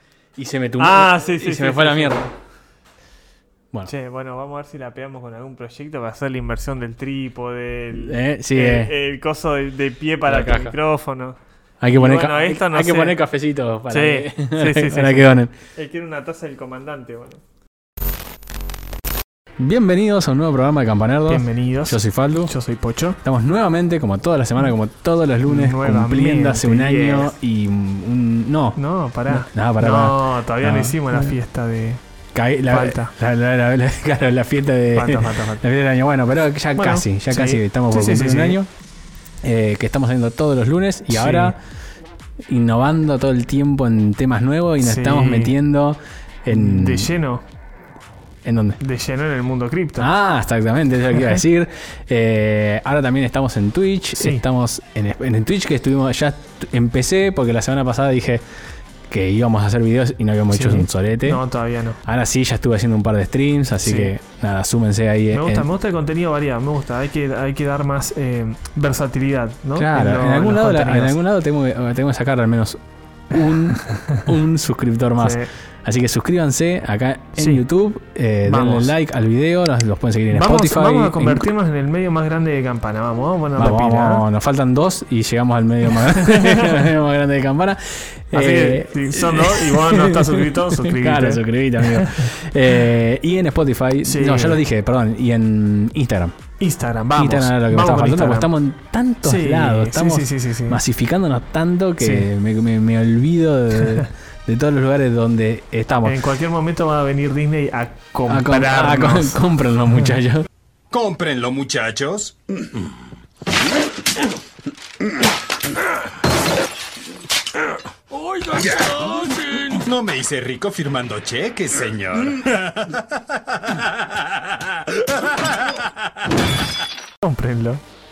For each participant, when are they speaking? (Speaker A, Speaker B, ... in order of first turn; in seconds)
Speaker A: 0.3-2.2, 7.9-8.9, 10.3-10.8, 11.8-15.5, 19.6-22.5, 23.2-31.3, 32.3-38.7, 39.4-41.6, 42.5-47.1, 48.4-48.8, 50.0-58.4, 59.1-61.4, 62.0-65.7, 69.7-81.5, 83.6-96.3, 97.1-106.2, 108.3-110.5
Speaker B: 0.8-2.3, 3.9-11.4, 11.9-13.2, 13.9-17.4, 21.3-23.2, 25.4-27.3, 28.8-32.0, 32.7-33.1, 34.9-35.6, 36.8-38.6, 41.1-41.5, 44.8-45.5, 46.5-47.4, 48.8-50.1, 54.1-54.4, 60.5-62.0, 63.8-64.1, 65.3-71.2, 73.5-74.3, 75.2-75.5, 77.4-77.6, 78.4-78.9, 80.3-84.2, 86.0-86.9, 88.3-92.3, 94.0-94.6, 96.6-98.5, 99.2-100.8, 102.0-102.3, 106.0-109.4, 127.2-127.8
Speaker C: 110.9-112.4, 118.4-123.0